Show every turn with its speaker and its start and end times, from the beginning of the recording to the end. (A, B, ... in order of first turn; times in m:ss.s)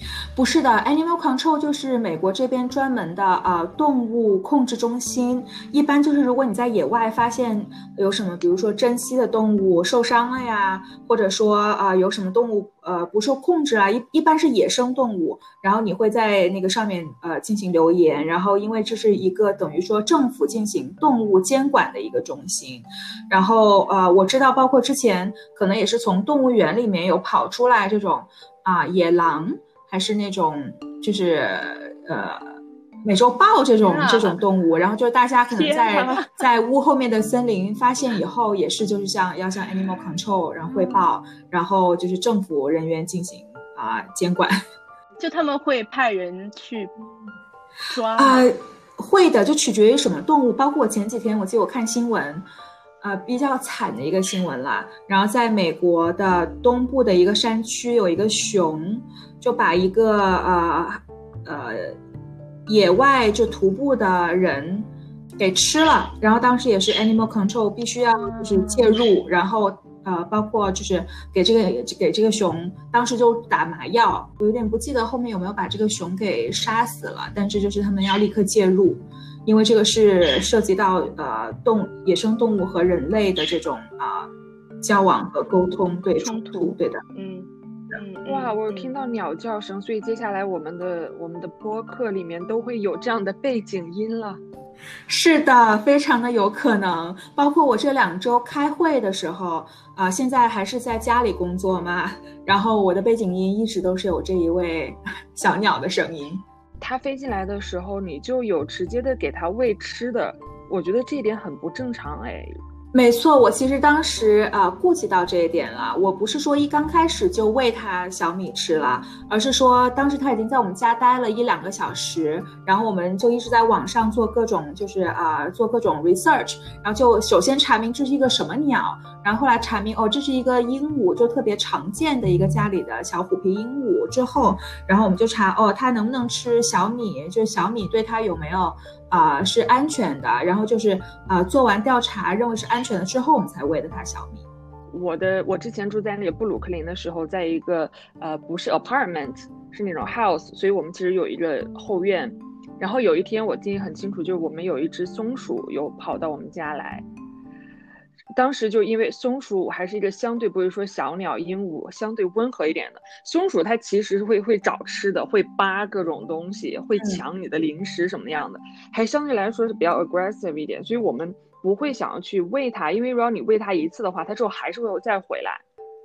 0:00.4-0:44.6 A
0:33.8-0:34.4 B
0:35.5-0:36.3 C
0:40.7-0:41.0 B
0:45.2-0:46.9 B
0:47.8-0:48.5 B
0:48.2-0:52.4 A
0:53.0-1:02.0 A
1:02.7-1:24.3 A
1:08.2-1:08.9 B
1:24.8-1:27.0 A
1:26.2-1:29.0 B
1:28.3-1:34.4 C
1:35.1-1:46.4 A
1:46.8-1:52.5 C
1:52.9-2:24.4 A
2:24.9-2:37.0 C
2:38.3-2:55.6 C